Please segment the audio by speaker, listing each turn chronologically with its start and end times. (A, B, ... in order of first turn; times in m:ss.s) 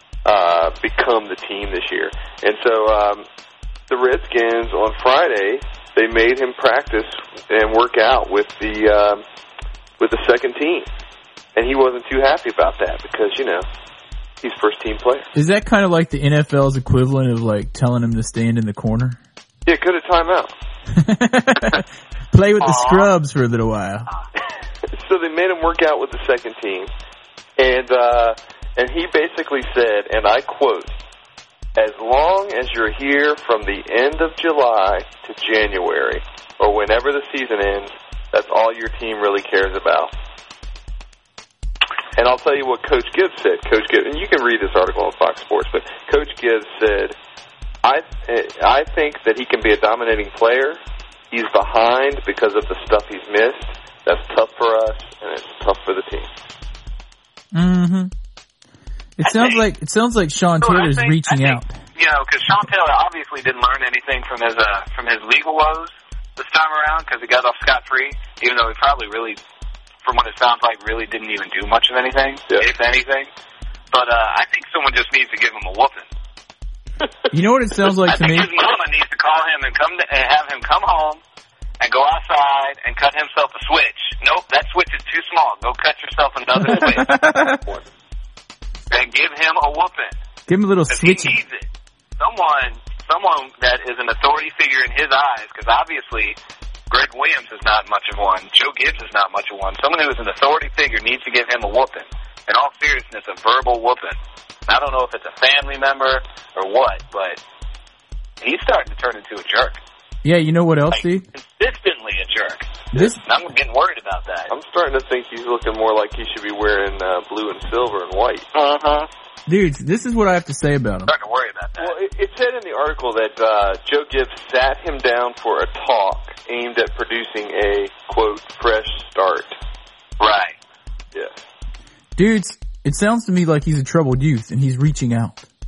0:00.2-0:03.2 A
0:03.9-0:09.2 A
0:10.0-0:10.9 A
0:11.6-0:13.7 A
0:14.4-0:15.3 A
0:15.4-0:19.2 B
0:19.7-0:20.5 A
0:20.9-0:24.1 B
0:22.6-0:23.1 C
0:24.9-0:26.9 A
0:27.6-0:30.9 A
0:31.8-0:40.1 A
0:42.2-0:47.2 A
0:47.8-0:50.8 A
0:51.3-0:56.3 A
0:57.5-0:58.1 B
0:59.2-1:01.7 B
0:59.3-0:59.6 C
1:00.6-1:09.4 C
1:10.0-1:13.3 C
1:13.9-1:16.1 C
1:17.3-1:18.5 B
1:18.1-1:21.2 C
1:21.8-1:27.1 C
1:26.6-1:27.6 B
1:28.9-1:30.2 C
1:30.5-1:31.4 B
1:30.9-1:31.7 C
1:32.2-1:36.4 C
1:36.9-1:47.4 C
1:48.4-1:49.8 C
1:50.2-1:51.2 B
1:50.9-1:54.5 C
1:52.9-1:53.2 B
1:54.5-1:58.5 A
1:58.5-1:59.1 C
1:59.5-2:01.1 B
2:01.1-2:01.9 C
2:01.8-2:09.6 A
2:10.2-2:10.6 C
2:12.2-2:15.4 B